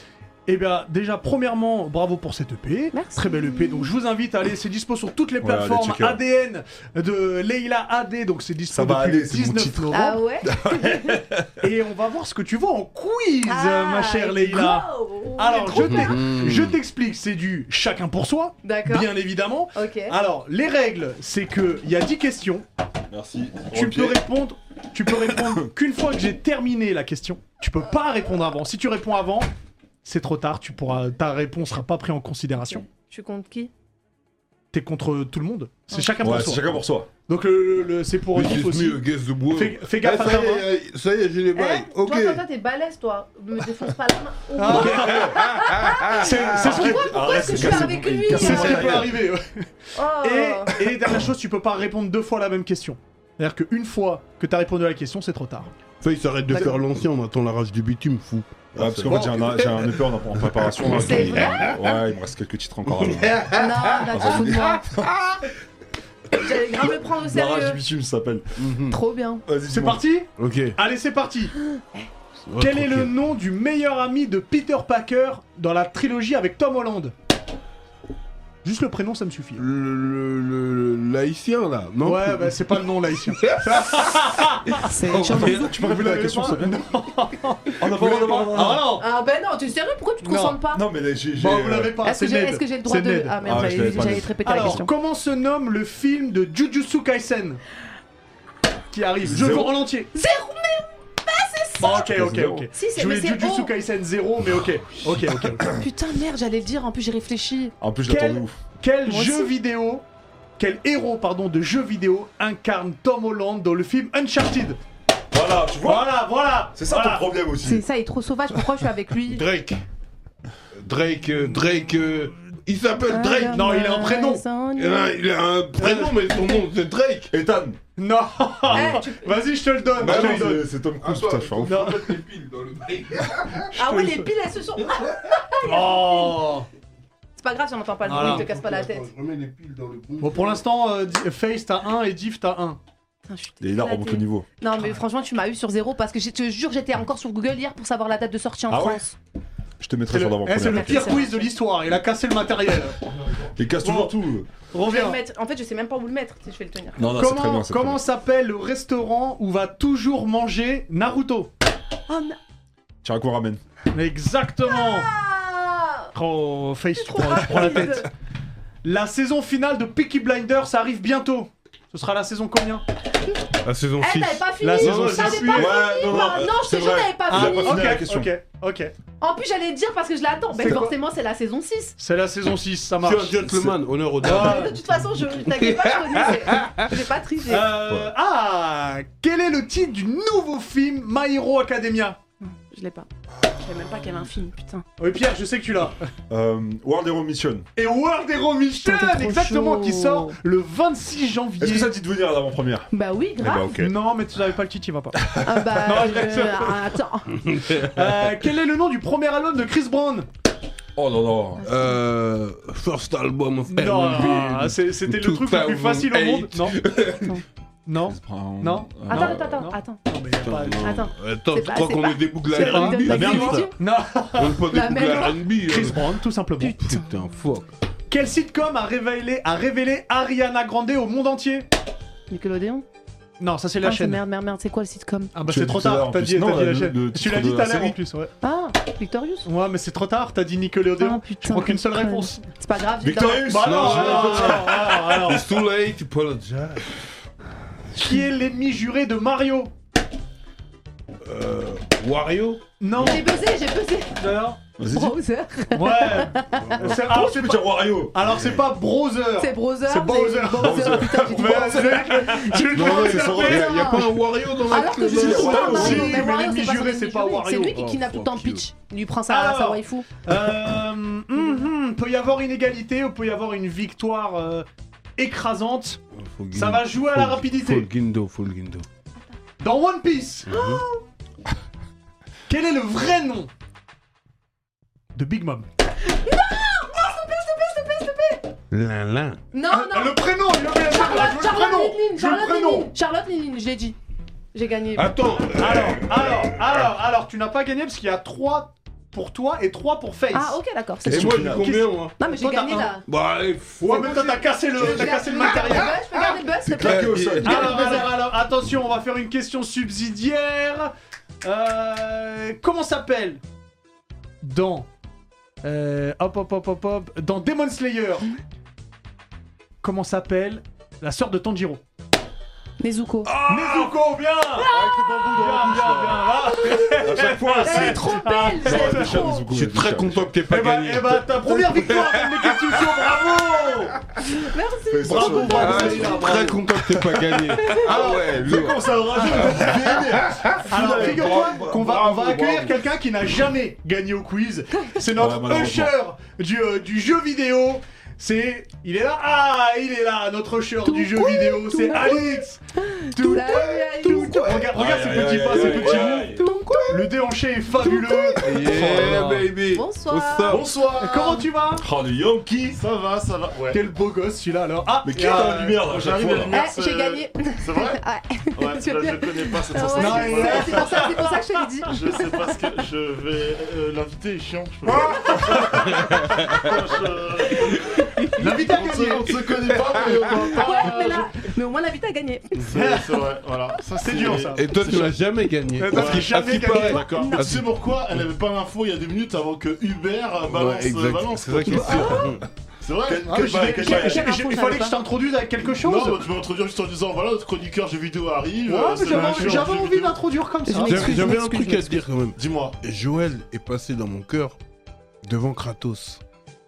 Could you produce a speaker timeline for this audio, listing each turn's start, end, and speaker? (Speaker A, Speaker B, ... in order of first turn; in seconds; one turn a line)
Speaker A: 0.5-10.2
Speaker B: 2.9-3.9
Speaker C: 5.4-6.2
Speaker C: 8.7-11.5
Speaker B: 9.9-11.2
Speaker A: 11.6-22.6
Speaker B: 13.4-16.1
Speaker D: 15.8-16.8
Speaker B: 18.6-19.1
Speaker B: 19.7-20.1
Speaker C: 23.1-24.2
Speaker A: 23.7-29.5
Speaker A: 30.0-32.8
Speaker B: 32.9-33.7
Speaker A: 34.7-39.0
Speaker C: 36.2-37.1
Speaker D: 38.3-42.4
Speaker A: 39.5-40.6
Speaker B: 41.5-49.0
Speaker A: 44.6-45.5
Speaker D: 45.3-46.0
Speaker A: 46.1-55.7
Speaker C: 46.5-49.2
Speaker B: 50.0-50.7
Speaker D: 56.0-59.8
Speaker C: 58.8-65.4
Speaker A: 59.1-59.6
Speaker D: 60.4-61.7
Speaker B: 61.0-61.7
Speaker D: 63.0-63.6
Speaker B: 63.5-64.9
Speaker B: 66.4-67.8
Speaker C: 67.2-68.4
Speaker D: 68.6-69.0
Speaker B: 68.9-69.4
Speaker C: 69.5-70.0
Speaker A: 69.7-71.5
Speaker D: 70.4-70.8
Speaker D: 72.5-73.1
Speaker A: 72.6-77.1
Speaker A: 78.6-79.6
Speaker D: 79.6-82.8
Speaker A: 82.0-89.0
Speaker B: 84.8-85.8
Speaker C: 85.1-86.9
Speaker C: 87.8-88.9
Speaker B: 89.0-90.8
Speaker A: 90.2-90.6
Speaker C: 90.7-92.0
Speaker A: 91.4-97.6
Speaker B: 92.0-94.9
Speaker C: 93.4-94.8
Speaker A: 98.9-100.1
Speaker C: 99.3-99.8
Speaker B: 100.1-102.1
Speaker A: 101.8-105.7
Speaker C: 101.9-102.7
Speaker B: 102.7-103.7
Speaker B: 105.7-107.7
Speaker C: 107.8-108.6
Speaker A: 108.1-110.0
Speaker B: 109.0-109.5
Speaker A: 110.6-114.8
Speaker C: 115.3-117.8
Speaker A: 115.8-117.3
Speaker B: 117.6-119.4
Speaker D: 119.3-119.8
Speaker D: 120.8-123.7
Speaker B: 123.1-125.1
Speaker A: 123.5-124.4
Speaker D: 124.8-127.3
Speaker C: 127.3-127.8
Speaker A: 128.0-130.6
Speaker B: 128.7-129.3
Speaker C: 129.9-131.9
Speaker D: 130.0-133.7
Speaker A: 131.6-132.1
Speaker B: 133.7-136.4
Speaker A: 133.8-134.2
Speaker A: 135.6-136.7
Speaker B: 137.4-139.1
Speaker A: 138.1-138.4
Speaker D: 138.1-140.6
Speaker A: 140.2-142.8
Speaker B: 143.3-149.1
Speaker C: 143.6-144.5
Speaker C: 148.7-149.1
Speaker C: 149.8-151.2
Speaker A: 150.1-153.0
Speaker B: 150.6-151.5
Speaker C: 153.6-154.5
Speaker A: 153.8-154.1
Speaker A: 154.7-155.2
Speaker B: 154.8-157.0
Speaker C: 157.0-158.0
Speaker A: 157.1-161.5
Speaker B: 162.1-162.4
Speaker C: 163.0-163.6
Speaker A: 163.9-165.1
Speaker B: 164.7-166.1
Speaker A: 166.1-168.1
Speaker B: 166.9-168.1
Speaker A: 168.8-172.8
Speaker D: 173.6-175.7
Speaker B: 174.0-177.9
Speaker A: 174.6-176.2
Speaker C: 175.5-178.3
Speaker A: 177.3-178.9
Speaker B: 179.2-181.9
Speaker A: 180.6-180.9
Speaker A: 182.0-184.8
Speaker D: 183.0-184.8
Speaker B: 184.2-187.8
Speaker D: 185.7-186.8
Speaker A: 187.4-192.2
Speaker B: 192.4-194.8
Speaker A: 195.0-196.0
Speaker C: 196.3-197.7
Speaker A: 197.8-201.9
Speaker B: 198.8-200.4
Speaker C: 201.6-202.9
Speaker B: 202.9-203.7
Speaker C: 203.4-203.9
Speaker A: 203.7-206.9
Speaker B: 205.4-207.4
Speaker A: 207.7-210.3
Speaker C: 210.9-211.6
Speaker B: 211.6-212.0
Speaker D: 211.6-217.3
Speaker A: 213.7-216.8
Speaker A: 217.9-221.0
Speaker C: 218.0-219.7
Speaker B: 219.1-220.0
Speaker D: 220.4-223.7
Speaker B: 220.8-223.7
Speaker A: 222.6-224.9
Speaker C: 223.1-223.7
Speaker D: 224.4-226.2
Speaker B: 224.7-225.4
Speaker A: 225.6-226.9
Speaker B: 226.6-227.1
Speaker D: 226.8-227.7
Speaker A: 228.1-231.7
Speaker B: 232.3-232.8
Speaker A: 233.4-234.2
Speaker B: 233.8-235.3
Speaker A: 235.3-238.3
Speaker C: 235.4-238.0
Speaker B: 238.4-239.5
Speaker A: 239.4-242.4
Speaker B: 241.0-243.7
Speaker C: 243.0-245.2
Speaker A: 243.4-245.4
Speaker D: 243.6-246.9
Speaker A: 247.9-249.7
Speaker D: 251.2-252.6
Speaker A: 252.8-253.3
Speaker B: 253.0-256.8
Speaker A: 254.2-254.6
Speaker C: 254.8-255.2
Speaker A: 255.7-263.9
Speaker C: 256.8-258.5
Speaker B: 259.4-270.1
Speaker C: 260.5-263.9
Speaker D: 262.7-266.1
Speaker A: 265.1-267.9
Speaker C: 265.1-266.3
Speaker D: 267.8-268.6
Speaker A: 269.3-276.0
Speaker D: 276.1-278.8
Speaker A: 276.5-277.9
Speaker A: 279.6-280.5
Speaker D: 280.5-280.8
Speaker B: 280.5-281.0
Speaker A: 282.5-283.5
Speaker A: 285.1-285.7
Speaker B: 286.0-288.5
Speaker D: 288.7-289.4
Speaker B: 289.5-294.0
Speaker A: 289.7-292.9
Speaker B: 294.5-295.1
Speaker D: 294.9-296.6
Speaker A: 295.6-300.6
Speaker B: 300.3-301.4
Speaker C: 301.1-301.7
Speaker D: 301.1-302.1
Speaker A: 301.4-302.9
Speaker B: 302.2-303.0
Speaker D: 303.1-304.3
Speaker A: 303.8-306.0
Speaker B: 303.9-308.1
Speaker C: 306.6-308.1
Speaker D: 306.8-307.6
Speaker A: 307.4-313.4
Speaker A: 314.4-314.9
Speaker A: 315.6-318.3
Speaker A: 319.8-321.8
Speaker B: 322.8-323.4
Speaker C: 323.3-323.9
Speaker A: 323.4-324.7
Speaker B: 324.6-325.3
Speaker C: 324.6-330.3
Speaker A: 325.2-329.2
Speaker B: 326.6-327.0
Speaker B: 327.6-329.5
Speaker D: 329.5-332.9
Speaker A: 330.5-333.9
Speaker C: 333.3-333.9
Speaker B: 334.4-336.5
Speaker C: 334.9-336.4
Speaker A: 335.1-336.6
Speaker D: 335.6-341.4
Speaker B: 337.6-338.0
Speaker C: 337.7-342.7
Speaker A: 337.9-338.2
Speaker A: 339.1-340.0
Speaker A: 340.7-352.6
Speaker C: 345.1-346.0
Speaker B: 350.9-354.7
Speaker A: 353.1-356.4
Speaker C: 354.7-356.5
Speaker D: 355.5-357.0
Speaker B: 356.4-356.9
Speaker A: 356.9-359.5
Speaker B: 357.8-358.7
Speaker D: 358.4-360.7
Speaker B: 359.7-360.6
Speaker E: 360.5-361.5
Speaker A: 360.9-361.9
Speaker C: 361.8-362.8
Speaker E: 362.7-363.8
Speaker A: 363.7-366.0
Speaker C: 365.0-366.6
Speaker E: 365.9-368.0
Speaker B: 366.5-371.9
Speaker E: 368.6-371.1
Speaker A: 370.0-371.4
Speaker E: 371.9-381.3
Speaker A: 378.4-379.7
Speaker B: 380.5-382.6
Speaker E: 382.6-385.2
Speaker A: 382.7-383.3
Speaker A: 384.0-385.0
Speaker D: 384.5-387.7
Speaker A: 385.8-387.4
Speaker E: 385.9-392.2
Speaker B: 387.2-387.4
Speaker D: 390.5-392.4
Speaker B: 391.7-392.3
Speaker E: 392.8-393.5
Speaker C: 393.1-394.3
Speaker A: 393.2-396.3
Speaker B: 393.7-395.0
Speaker E: 395.8-400.2
Speaker A: 398.6-401.4
Speaker B: 399.1-399.6
Speaker B: 400.7-402.0
Speaker D: 400.9-404.6
Speaker E: 402.4-402.8
Speaker D: 405.2-406.2